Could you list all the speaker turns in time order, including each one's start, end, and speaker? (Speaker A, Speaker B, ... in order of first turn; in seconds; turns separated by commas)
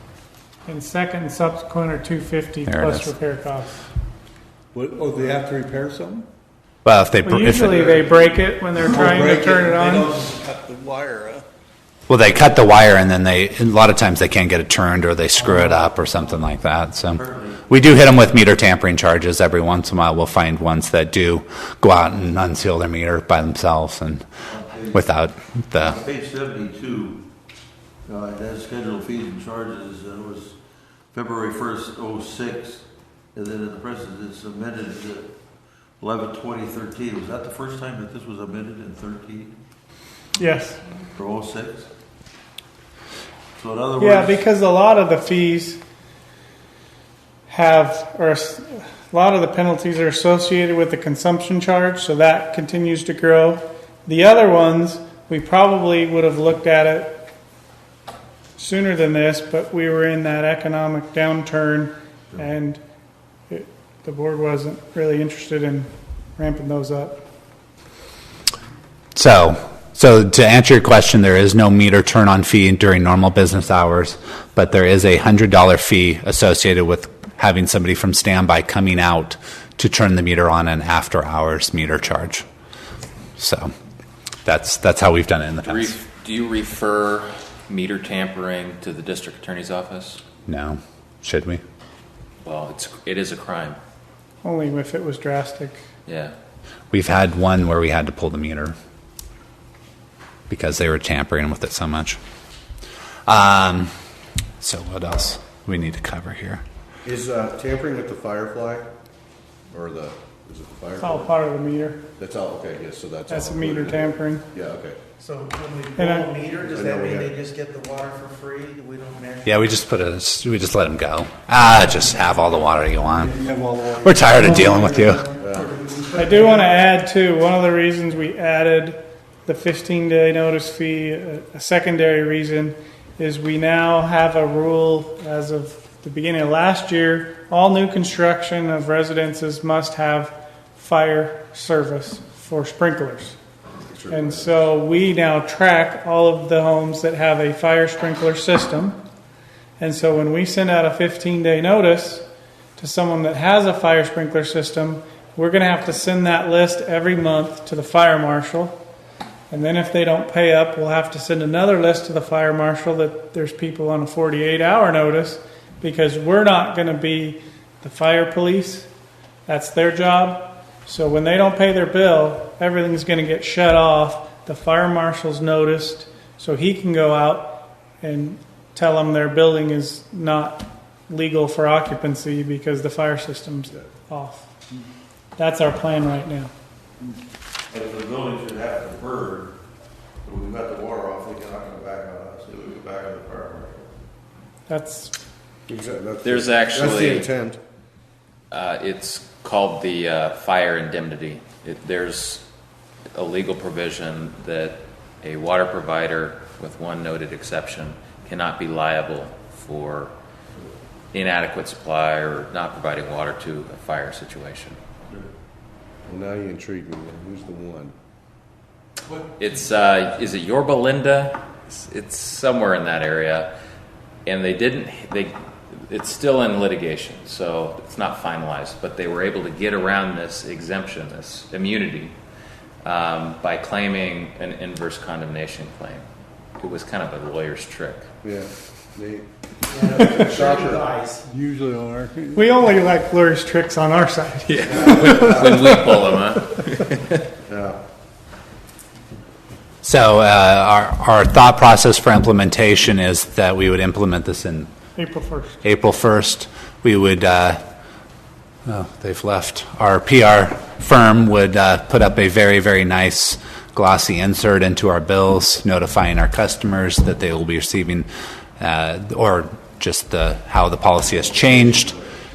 Speaker A: 0.7-3.9, Speaker B: 2.7-3.1, Speaker C: 4.7-6.3, Speaker B: 6.8-8.0, Speaker A: 7.2-10.1, Speaker C: 8.8-11.4, Speaker B: 12.1-24.2, Speaker D: 17.1-17.6, Speaker D: 24.5-25.0, Speaker B: 24.9-26.0, Speaker D: 25.8-27.2, Speaker D: 28.1-30.6, Speaker D: 31.1-32.8, Speaker D: 33.4-35.3, Speaker D: 36.0-39.5, Speaker A: 40.4-40.8, Speaker D: 41.1-41.9, Speaker D: 43.6-44.4, Speaker A: 44.0-45.8, Speaker A: 47.5-57.3, Speaker A: 58.6-62.8, Speaker A: 63.5-67.2, Speaker B: 69.2-82.4, Speaker B: 83.4-83.7, Speaker B: 84.5-86.0, Speaker E: 85.6-90.2, Speaker B: 90.5-91.6, Speaker E: 92.4-93.8, Speaker A: 94.4-95.8, Speaker E: 96.1-96.3, Speaker B: 96.9-98.8, Speaker B: 100.5-102.2, Speaker B: 103.3-103.9, Speaker B: 104.6-106.6, Speaker F: 107.0-108.9, Speaker F: 109.7-111.3, Speaker A: 111.0-112.0, Speaker F: 112.2-115.0, Speaker A: 113.3-114.5, Speaker G: 115.2-119.6, Speaker A: 116.0-116.4, Speaker F: 116.6-117.3, Speaker B: 119.5-123.4, Speaker C: 123.2-126.4, Speaker B: 124.0-125.3, Speaker F: 125.4-125.7, Speaker A: 126.2-143.4, Speaker F: 143.8-144.6, Speaker A: 144.1-149.0, Speaker A: 149.8-152.3, Speaker A: 152.8-158.8, Speaker A: 159.5-168.9, Speaker A: 169.5-184.5, Speaker A: 185.4-186.5, Speaker D: 187.7-189.5, Speaker D: 190.2-193.8, Speaker A: 194.7-195.1, Speaker F: 195.7-197.6, Speaker E: 196.2-197.3, Speaker E: 198.5-202.4, Speaker E: 203.1-210.1, Speaker E: 211.1-214.8, Speaker F: 216.1-217.9, Speaker E: 219.4-223.5, Speaker E: 224.3-232.1, Speaker E: 232.8-236.0, Speaker E: 236.6-238.1, Speaker F: 238.2-239.3, Speaker G: 239.7-241.3, Speaker F: 239.8-240.9, Speaker C: 241.3-242.4, Speaker A: 242.3-245.3, Speaker E: 244.5-247.2, Speaker F: 244.7-245.8, Speaker F: 247.5-247.8, Speaker B: 249.8-254.7, Speaker A: 255.0-255.6, Speaker B: 255.6-257.6, Speaker B: 258.7-268.1, Speaker B: 268.6-272.0